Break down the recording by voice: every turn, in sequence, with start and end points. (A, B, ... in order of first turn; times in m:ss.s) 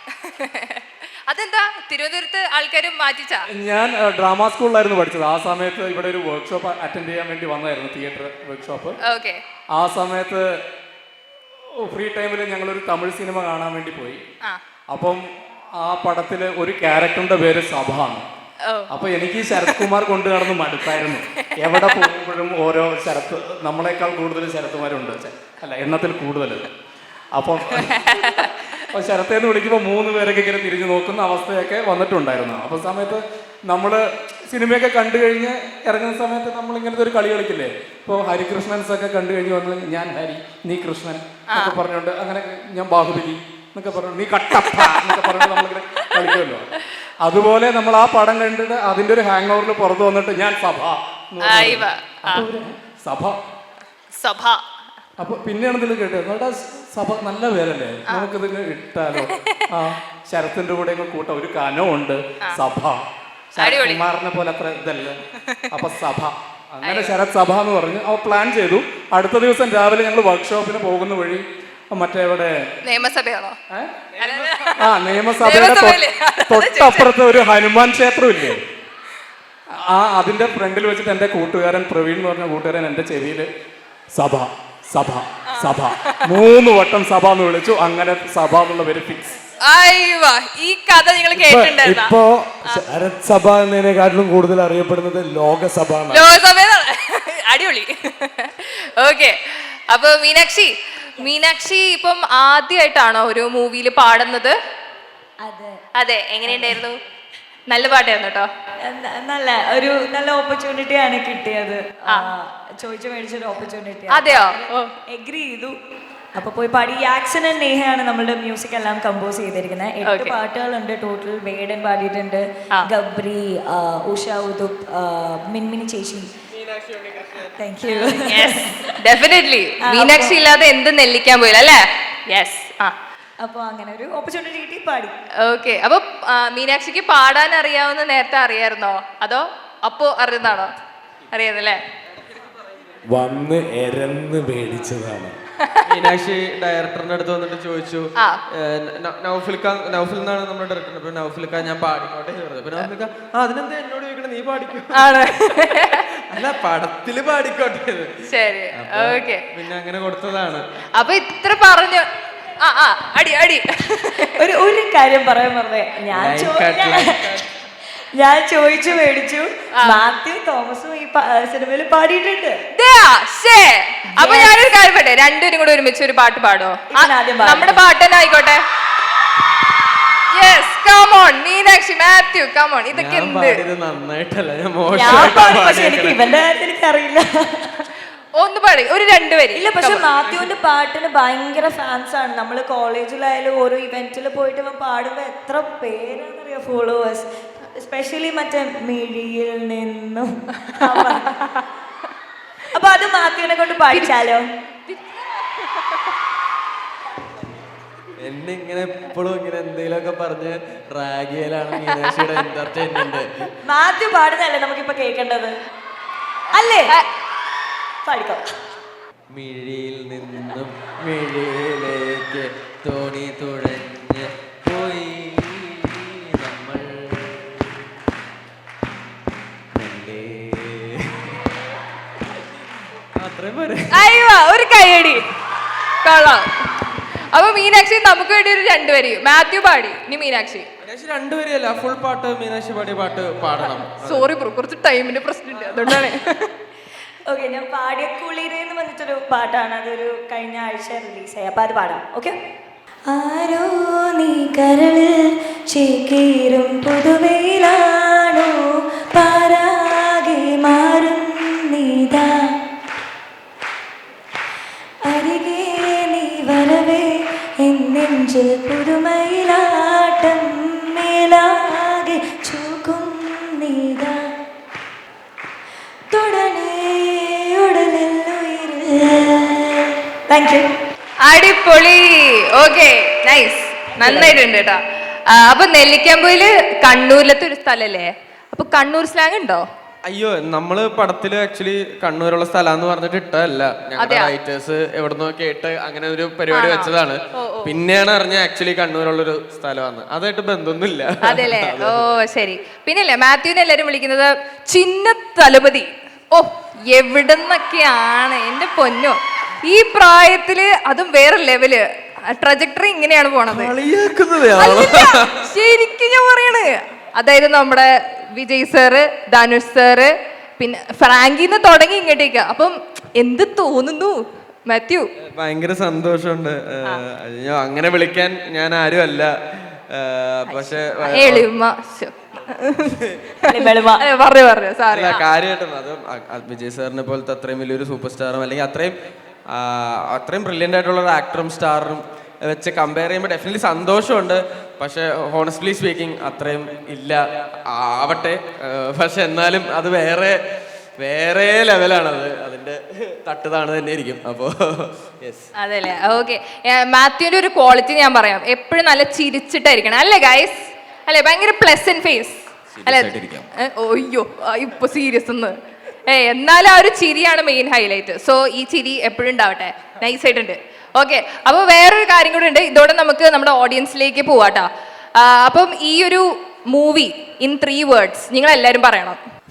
0:00.2-0:03.4 A
0:03.5-0:09.0 B
0:09.0-0:09.4 A
0:09.7-0:10.5 B
0:11.8-0:14.2 B
0:14.9-0:15.2 B
0:15.8-0:18.2 B
0:18.9-0:26.7 B
0:19.5-0:19.8 A
0:21.4-0:22.1 A
0:27.3-0:28.2 B
0:27.8-0:28.5 A
0:28.9-0:46.6 B
0:44.6-0:45.5 A
0:47.2-0:53.4 B
0:51.4-0:52.4 A
0:54.2-0:54.6 A
0:55.2-1:03.0 B
0:59.2-0:59.6 A
1:03.5-1:05.2 B
1:03.6-1:04.0 A
1:05.7-1:12.5 B
1:06.8-1:07.1 A
1:12.8-1:13.6 A
1:14.2-1:17.1 A
1:14.2-1:14.5 C
1:14.8-1:18.6 B
1:19.8-1:23.5 B
1:24.1-1:29.4 B
1:25.6-1:26.2 A
1:29.6-1:32.1 A
1:31.3-1:36.3 D
1:36.1-1:44.5 A
1:45.4-1:45.8 E
1:46.0-1:47.0 A
1:46.4-1:46.8 E
1:47.7-1:48.5 A
1:48.8-1:55.7 E
1:54.1-1:54.9 A
1:56.4-2:06.3 E
2:00.0-2:00.4 A
2:06.5-2:07.5 C
2:07.6-2:08.9 E
2:08.2-2:12.9 A
2:09.9-2:10.4 E
2:13.4-2:15.2 E
2:15.4-2:20.7 A
2:21.3-2:21.8 A
2:23.1-2:25.4 D
2:25.8-2:35.2 C
2:35.0-2:36.0 A
2:36.3-2:38.2 C
2:38.3-2:39.4 A
2:38.7-2:40.7 C
2:41.0-2:42.1 A
2:42.6-2:44.3 A
2:44.4-2:47.0 E
2:46.1-2:47.4 C
2:48.2-2:52.6 E
2:52.7-2:58.6 A
2:54.2-2:54.6 E
2:56.9-2:57.8 E
3:00.4-3:03.6 A
3:02.9-3:06.2 C
3:04.9-3:07.7 E
3:08.4-3:10.1 A
3:09.5-3:21.5 E
3:22.7-3:24.4 E
3:24.9-3:25.9 A
3:28.2-3:33.5 C
3:33.6-3:35.6 E
3:36.5-3:37.0 E
3:38.0-3:38.4 E
3:39.3-3:47.7 C
3:49.7-3:51.3 C
3:53.2-3:54.0 C
3:53.9-3:55.2 A
3:56.0-3:56.6 A
3:57.3-4:00.7 A
4:00.8-4:04.2 C
4:04.0-4:06.5 A
4:07.3-4:12.4 E
4:13.1-4:22.6 E
4:25.0-4:34.3 E
4:36.1-4:40.7 E
4:41.2-4:49.6 A
4:43.9-4:44.4 E
4:50.0-5:02.0 C
4:54.0-4:54.3 A
4:56.5-4:57.7 A
5:01.2-5:13.7 A
5:13.5-5:15.3 C
5:14.6-5:25.1 A
5:25.3-5:31.5 C
5:31.1-5:33.0 A
5:33.5-5:34.0 E
5:33.5-5:35.2 A
5:34.9-5:39.0 C
5:39.5-5:50.4 C
5:51.0-5:55.5 C
5:55.6-6:05.6 A
6:02.7-6:03.5 C
6:06.1-6:19.2 A